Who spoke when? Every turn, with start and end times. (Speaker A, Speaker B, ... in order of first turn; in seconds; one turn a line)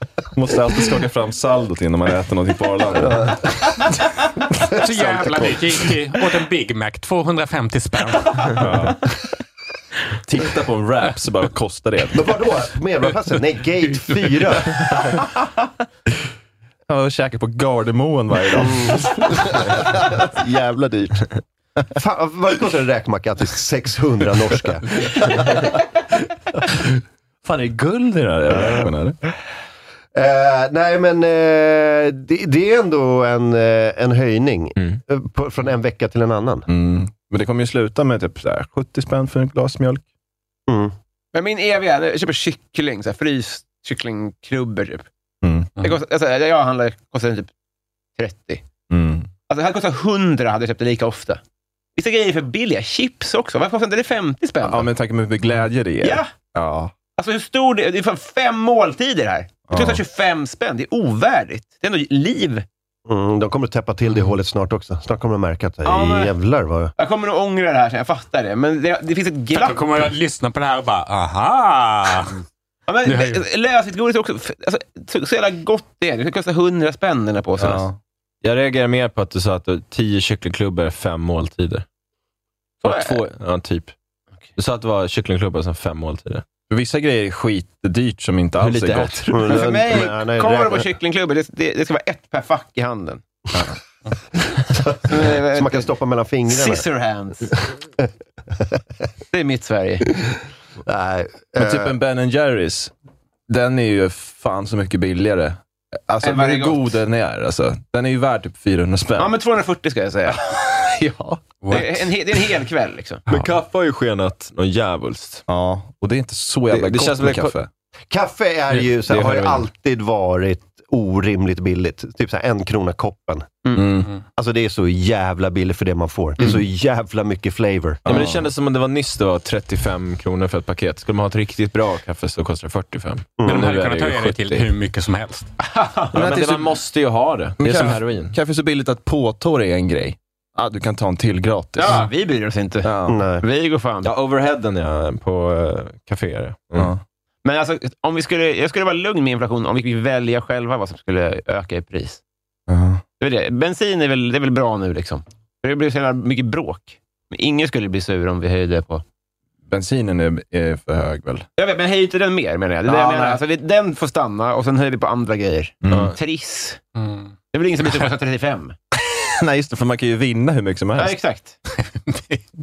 Speaker A: 0.3-3.4
Speaker B: 3.0-3.5
Speaker A: 4.6-5.8
Speaker C: 4.7-8.6
Speaker A: 8.6-9.1
Speaker A: 10.2-12.3
Speaker B: 12.1-15.1
Speaker A: 16.9-21.2
Speaker B: 18.6-20.1
Speaker B: 21.9-25.6
Speaker A: 27.4-29.2
Speaker B: 30.1-36.7
Speaker A: 36.7-40.0
Speaker B: 40.7-40.9
Speaker D: 41.3-45.0
Speaker A: 45.4-45.7
Speaker D: 45.8-47.5
Speaker D: 48.2-48.6
Speaker A: 48.9-49.3
Speaker D: 49.5-51.4
Speaker D: 52.0-54.9
Speaker A: 54.6-56.9
Speaker D: 56.0-56.3
Speaker D: 57.2-62.6
Speaker A: 59.7-60.0
Speaker B: 63.1-66.9
Speaker D: 65.8-66.3
Speaker D: 67.0-70.1
Speaker C: 69.5-72.4
Speaker D: 72.9-77.8
Speaker C: 73.0-73.4
Speaker A: 77.6-78.0
Speaker E: 78.4-81.8
Speaker D: 82.8-83.2
Speaker E: 82.8-83.9
Speaker E: 84.5-86.4
Speaker A: 86.7-89.3
Speaker E: 88.6-90.0
Speaker B: 89.3-90.9
Speaker D: 89.5-93.2
Speaker B: 94.6-96.9
Speaker D: 95.1-95.9
Speaker D: 96.5-97.6
Speaker D: 99.3-100.1
Speaker B: 100.8-102.0
Speaker A: 101.6-102.9
Speaker A: 103.5-109.3
Speaker D: 106.2-106.9
Speaker D: 109.2-110.4
Speaker A: 110.8-111.4
Speaker C: 111.6-111.9
Speaker D: 111.7-113.2
Speaker E: 113.3-115.4
Speaker A: 115.5-117.7
Speaker E: 116.7-117.6
Speaker B: 118.1-123.7
Speaker E: 119.0-119.6
Speaker A: 123.7-124.1
Speaker B: 124.4-128.1
Speaker A: 128.1-128.5
Speaker E: 128.1-134.7
Speaker B: 133.4-133.6
Speaker C: 133.4-135.5
Speaker D: 135.6-136.4
Speaker E: 136.1-138.4
Speaker A: 136.2-136.7
Speaker A: 137.6-142.1
Speaker D: 141.8-144.1
Speaker A: 142.8-143.2
Speaker B: 143.1-143.4
Speaker E: 144.0-146.9
Speaker A: 146.8-147.0
Speaker D: 147.4-152.2
Speaker A: 152.7-153.0
Speaker D: 153.2-159.0
Speaker A: 159.7-161.4
Speaker D: 161.6-166.8
Speaker A: 162.9-163.4
Speaker A: 165.8-166.1
Speaker C: 166.9-167.3
Speaker D: 167.5-168.7
Speaker A: 169.4-171.2
Speaker D: 171.0-171.6
Speaker C: 172.1-172.4